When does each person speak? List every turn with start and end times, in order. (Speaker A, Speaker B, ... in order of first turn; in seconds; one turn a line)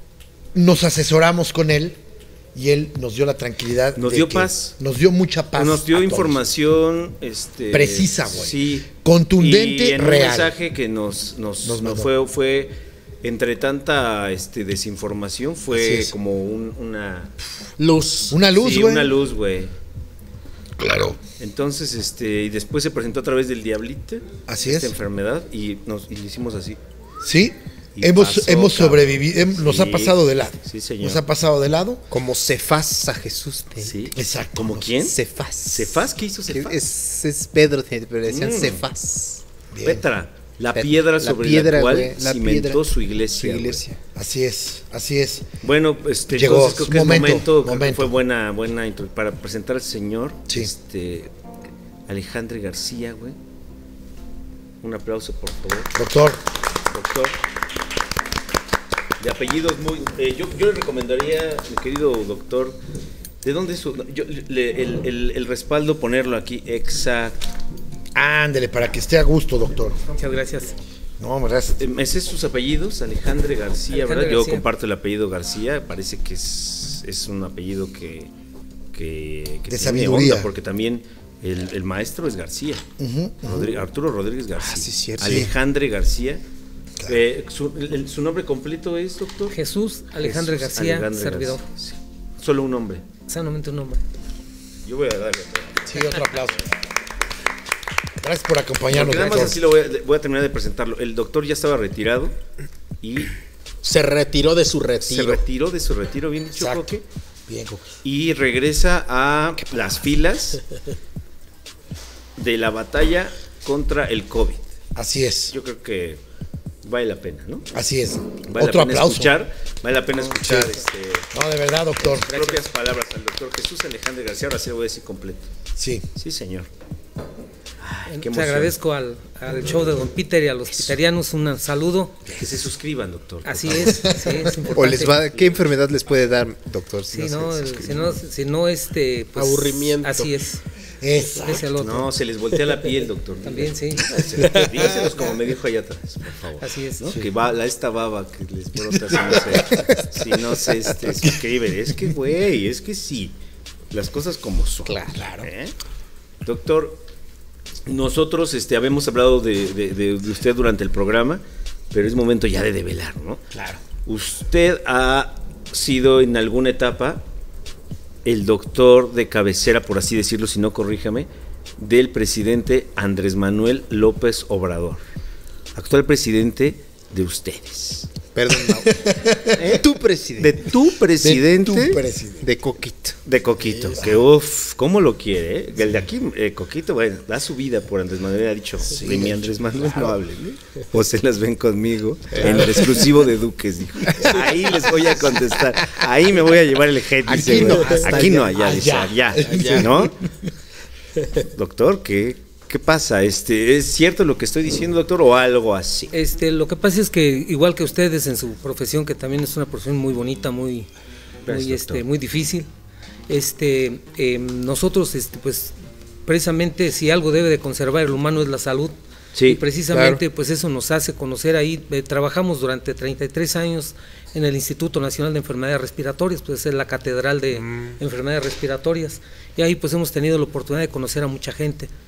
Speaker A: 0.5-2.0
Speaker A: 2.5-6.5
Speaker B: 4.0-4.8
Speaker B: 5.5-17.4
Speaker A: 7.7-10.5
Speaker A: 11.6-12.1
Speaker A: 15.7-16.1
Speaker C: 17.8-18.4
Speaker A: 18.3-19.1
Speaker B: 18.5-19.7
Speaker A: 20.8-21.2
Speaker B: 21.4-26.8
Speaker A: 24.5-24.9
Speaker A: 27.2-32.0
Speaker B: 27.9-31.2
Speaker D: 32.1-34.0
Speaker B: 33.8-36.8
Speaker A: 34.1-34.9
Speaker D: 35.0-39.4
Speaker B: 38.3-38.8
Speaker A: 39.7-40.0
Speaker B: 39.8-43.8
Speaker D: 40.7-44.0
Speaker A: 44.1-45.5
Speaker B: 45.6-51.3
Speaker A: 46.3-48.1
Speaker B: 52.1-53.4
Speaker B: 54.8-55.9
Speaker A: 56.0-56.4
Speaker B: 56.9-57.4
Speaker B: 59.2-62.8
Speaker B: 63.4-67.4
Speaker A: 68.2-70.0
Speaker E: 70.2-70.8
Speaker A: 71.2-71.8
Speaker B: 71.8-78.3
Speaker E: 73.9-74.6
Speaker B: 78.9-82.9
Speaker A: 79.7-80.5
Speaker A: 83.0-83.8
Speaker B: 83.4-86.4
Speaker D: 84.6-85.5
Speaker A: 85.2-85.5
Speaker B: 87.1-89.6
Speaker E: 89.5-91.7
Speaker B: 90.2-93.1
Speaker E: 93.3-94.0
Speaker B: 94.8-96.0
Speaker A: 95.9-96.7
Speaker A: 98.2-99.6
Speaker B: 98.9-102.3
Speaker B: 103.0-103.3
Speaker C: 103.8-105.4
Speaker B: 105.0-107.0
Speaker A: 106.5-106.9
Speaker A: 107.5-107.9
Speaker B: 108.0-110.6
Speaker B: 112.4-114.7
Speaker A: 115.0-115.5
Speaker B: 115.5-116.2
Speaker B: 116.8-117.7
Speaker A: 117.7-119.3
Speaker B: 118.5-121.3
Speaker D: 120.4-120.7
Speaker A: 121.3-122.5
Speaker B: 122.0-125.5
Speaker A: 125.8-126.1
Speaker B: 126.2-126.7
Speaker B: 127.8-128.8
Speaker E: 128.1-132.2
Speaker B: 132.3-134.0
Speaker E: 133.4-135.2
Speaker A: 133.8-134.6
Speaker D: 134.7-138.2
Speaker B: 135.3-135.6
Speaker E: 137.1-140.6
Speaker C: 139.4-140.3
Speaker A: 141.0-141.7
Speaker E: 141.4-142.1
Speaker B: 141.8-153.4
Speaker E: 143.4-144.6
Speaker E: 146.6-147.1
Speaker A: 148.9-150.0
Speaker A: 151.1-151.4
Speaker B: 153.9-155.8
Speaker A: 155.0-155.5
Speaker B: 156.4-157.0
Speaker B: 157.9-163.4
Speaker A: 163.5-163.8
Speaker B: 164.1-167.2
Speaker B: 168.2-175.0
Speaker B: 175.8-178.1
Speaker D: 178.3-179.1
Speaker A: 178.5-179.8
Speaker B: 179.5-179.8
Speaker D: 179.6-180.6
Speaker B: 180.4-182.0
Speaker A: 181.2-182.5
Speaker D: 181.8-183.2
Speaker B: 183.2-200.2
Speaker A: 188.9-190.1
Speaker D: 192.4-192.7
Speaker A: 192.4-193.0
Speaker D: 197.3-199.0
Speaker A: 197.3-200.3
Speaker C: 199.4-199.9
Speaker B: 201.4-206.2
Speaker E: 206.1-210.9
Speaker B: 211.5-212.1
Speaker E: 211.5-212.7
Speaker E: 213.3-215.7
Speaker E: 216.3-231.9
Speaker B: 219.3-219.6
Speaker D: 219.9-220.2
Speaker D: 227.6-227.9